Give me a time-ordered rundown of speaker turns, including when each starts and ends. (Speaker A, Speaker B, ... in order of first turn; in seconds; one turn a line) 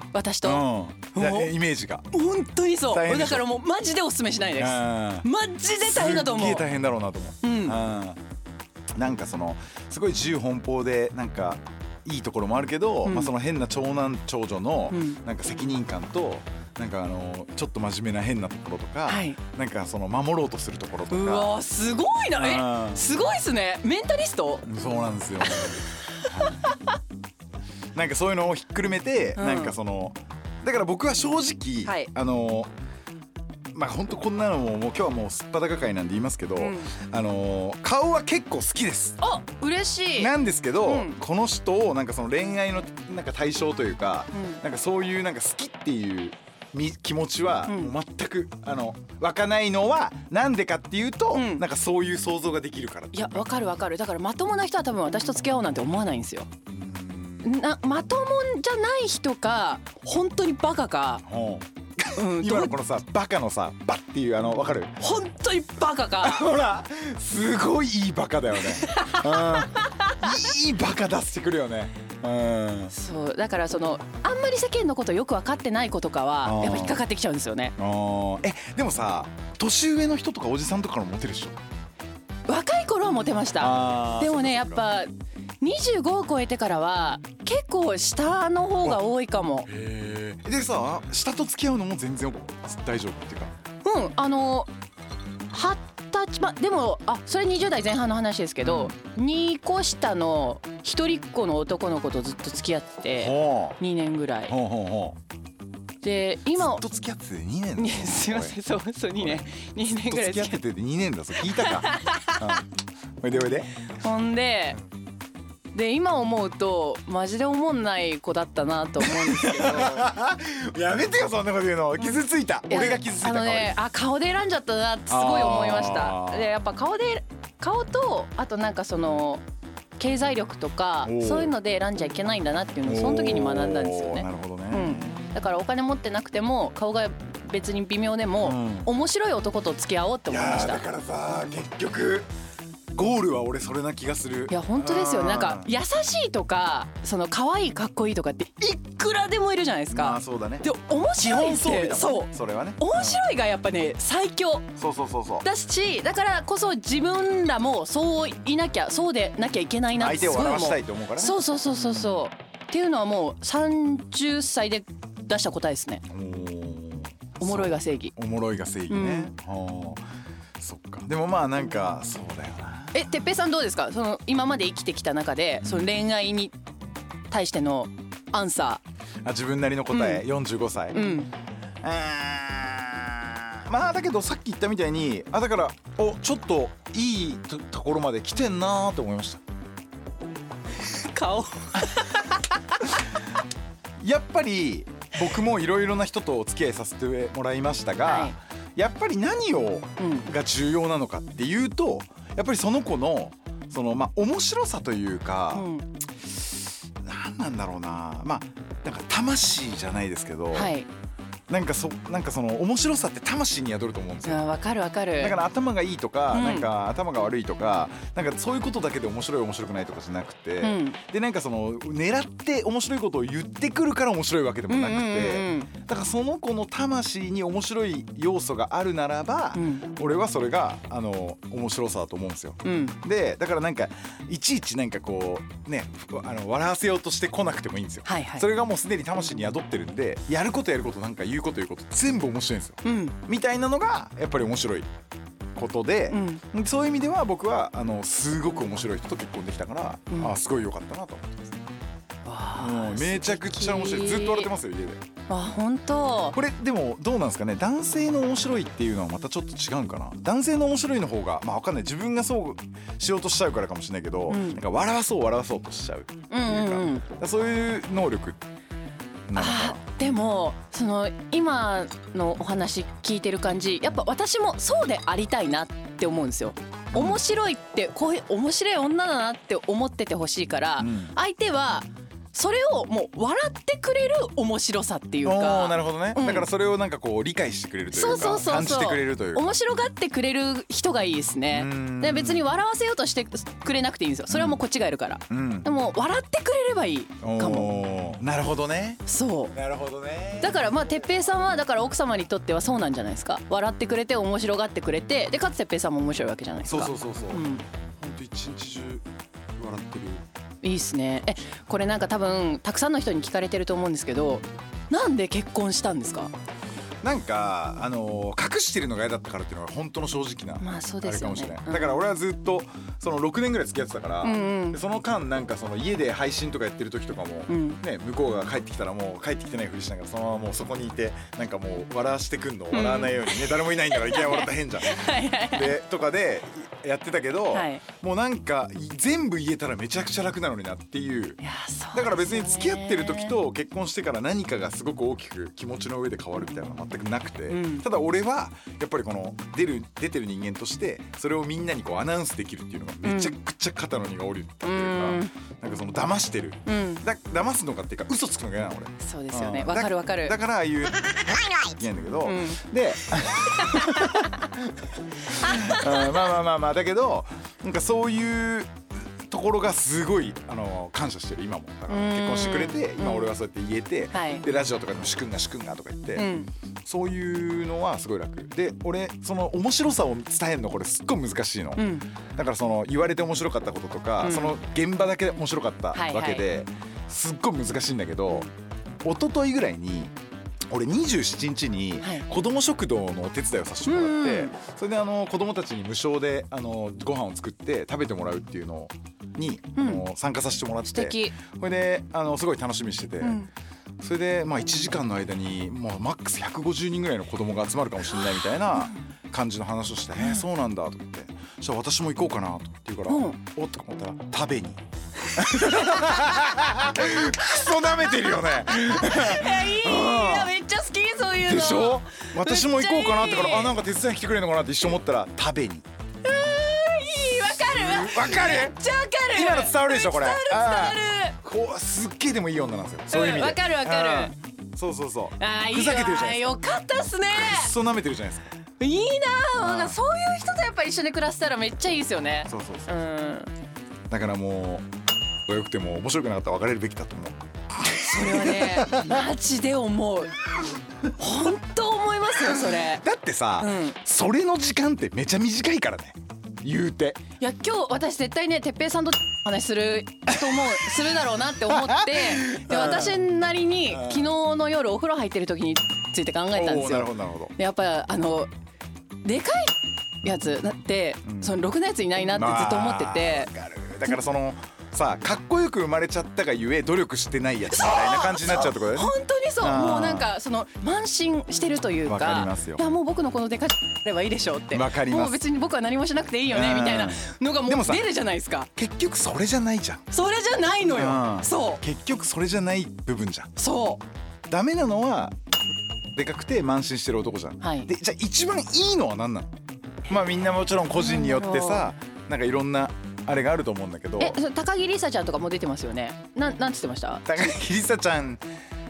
Speaker A: 0.1-1.5
Speaker B: 0.4-2.1
Speaker A: 2.1-6.7
Speaker B: 2.9-3.5
Speaker B: 4.5-5.3
Speaker B: 5.8-8.2
Speaker A: 7.4-7.8
Speaker B: 8.9-21.5
Speaker A: 13.1-13.3
Speaker A: 14.9-15.2
Speaker A: 19.1-19.4
Speaker A: 21.1-24.6
Speaker B: 22.4-23.1
Speaker B: 24.6-26.8
Speaker A: 25.5-25.8
Speaker B: 27.9-32.7
Speaker A: 29.4-29.7
Speaker A: 31.8-32.1
Speaker B: 33.7-39.2
Speaker A: 36.6-36.9
Speaker A: 39.2-40.3
Speaker B: 40.1-53.4
Speaker A: 40.8-41.1
Speaker A: 44.3-44.6
Speaker A: 47.7-47.9
Speaker A: 51.3-51.6
Speaker A: 53.1-56.5
Speaker B: 56.7-57.5
Speaker A: 57.4-61.2
Speaker B: 61.2-65.0
Speaker A: 62.1-62.7
Speaker A: 65.0-66.5
Speaker B: 66.2-72.9
Speaker A: 68.8-70.3
Speaker A: 72.9-77.7
Speaker B: 76.4-77.0
Speaker B: 77.8-81.6
Speaker A: 82.5-85.1
Speaker B: 83.6-84.9
Speaker A: 85.6-89.7
Speaker B: 89.7-93.5
Speaker A: 93.8-94.7
Speaker A: 95.5-104.5
Speaker B: 98.6-98.9
Speaker B: 103.1-103.8
Speaker B: 104.5-105.2
Speaker A: 106.0-106.8
Speaker B: 106.5-108.6
Speaker A: 107.8-110.6
Speaker B: 109.2-112.7
Speaker A: 111.7-112.3
Speaker B: 113.2-113.7
Speaker A: 114.0-114.8
Speaker A: 115.7-120.1
Speaker B: 119.0-123.8
Speaker A: 122.7-129.4
Speaker B: 125.1-126.5
Speaker A: 130.0-140.8
Speaker B: 131.0-131.5
Speaker B: 132.8-135.3
Speaker B: 138.4-138.9
Speaker B: 140.3-142.3
Speaker B: 142.9-145.7
Speaker A: 144.5-154.7
Speaker B: 149.9-153.2
Speaker B: 154.8-155.5
Speaker A: 155.4-166.0
Speaker B: 159.9-162.1
Speaker B: 166.0-170.0
Speaker A: 167.4-168.1
Speaker A: 168.9-169.3
Speaker B: 170.6-173.1
Speaker A: 172.9-176.6
Speaker B: 175.6-175.9
Speaker A: 177.3-178.8
Speaker B: 179.2-181.2
Speaker A: 179.9-180.2
Speaker A: 180.9-181.3
Speaker B: 181.8-189.4
Speaker A: 190.9-192.4
Speaker B: 194.0-205.7
Speaker A: 198.0-198.3
Speaker A: 200.0-200.3
Speaker A: 205.5-205.9
Speaker B: 206.3-210.7
Speaker A: 210.5-210.9
Speaker B: 211.5-214.4
Speaker A: 214.2-215.4
Speaker B: 215.2-244.9
Speaker A: 216.3-216.7
Speaker A: 220.6-221.0
Speaker A: 224.7-225.7
Speaker A: 229.5-229.9
Speaker A: 232.6-232.9
Speaker A: 238.0-238.5
Speaker A: 242.8-243.1
Speaker B: 245.5-251.6
Speaker A: 246.1-246.4
Speaker A: 250.1-250.3
Speaker A: 252.2-254.5
Speaker B: 252.6-255.0
Speaker A: 255.3-256.4
Speaker B: 256.3-268.4
Speaker A: 264.3-264.6
Speaker A: 266.3-267.0
Speaker B: 269.3-269.8
Speaker A: 269.4-286.5
Speaker B: 276.9-277.2
Speaker B: 280.8-281.1
Speaker B: 285.2-289.4
Speaker A: 287.9-297.8
Speaker B: 291.5-292.4
Speaker B: 294.3-294.6
Speaker B: 295.3-295.7
Speaker B: 297.2-301.2
Speaker A: 299.1-299.5
Speaker A: 300.4-307.6
Speaker B: 306.6-307.4
Speaker B: 308.0-309.0
Speaker B: 309.6-310.2
Speaker A: 310.6-316.3
Speaker B: 317.0-341.4
Speaker A: 320.6-322.0
Speaker A: 324.2-324.8
Speaker A: 327.5-327.8
Speaker A: 332.7-335.8
Speaker A: 337.5-337.8
Speaker A: 341.4-343.4
Speaker B: 341.9-364.7
Speaker A: 347.5-347.9
Speaker A: 353.0-353.4
Speaker A: 354.6-355.3
Speaker A: 356.6-357.0
Speaker A: 359.0-360.4
Speaker A: 362.2-362.6
Speaker A: 363.6-364.3
Speaker B: 365.3-376.3
Speaker A: 365.4-365.9
Speaker A: 371.9-373.3
Speaker A: 374.1-374.4
Speaker A: 376.1-376.5
Speaker B: 376.8-388.5
Speaker A: 381.8-382.1
Speaker A: 384.2-384.6
Speaker A: 385.9-386.5
Speaker B: 389.0-390.1
Speaker B: 390.7-403.4
Speaker A: 393.8-394.6
Speaker A: 399.8-400.0
Speaker A: 400.9-401.4
Speaker A: 403.2-403.5
Speaker B: 404.0-420.5
Speaker A: 413.1-413.4
Speaker A: 415.7-416.4
Speaker A: 417.4-423.8
Speaker B: 421.4-425.9
Speaker A: 426.2-431.4
Speaker B: 427.4-428.8
Speaker B: 429.3-436.6
Speaker A: 433.1-434.3
Speaker A: 435.4-437.7
Speaker B: 437.3-438.5
Speaker A: 438.8-443.5
Speaker B: 439.6-440.0
Speaker B: 442.4-442.9
Speaker B: 444.1-444.9
Speaker B: 445.5-449.2
Speaker A: 448.0-450.3
Speaker A: 451.2-453.0
Speaker B: 452.5-457.2
Speaker A: 453.6-453.9
Speaker A: 457.4-468.5
Speaker B: 461.7-463.2
Speaker B: 463.9-464.3
Speaker B: 466.5-467.5
Speaker A: 469.2-473.5
Speaker B: 471.2-471.6
Speaker B: 472.2-480.3
Speaker A: 477.7-488.7
Speaker B: 482.0-482.8
Speaker B: 484.7-485.4
Speaker B: 486.5-488.1
Speaker B: 488.8-490.0
Speaker A: 490.1-491.8
Speaker B: 490.9-493.5
Speaker A: 493.6-494.0
Speaker B: 494.5-495.4
Speaker B: 496.1-499.5
Speaker A: 497.6-497.9
Speaker B: 500.1-504.4
Speaker A: 501.0-501.9
Speaker A: 504.2-507.2
Speaker B: 507.2-508.4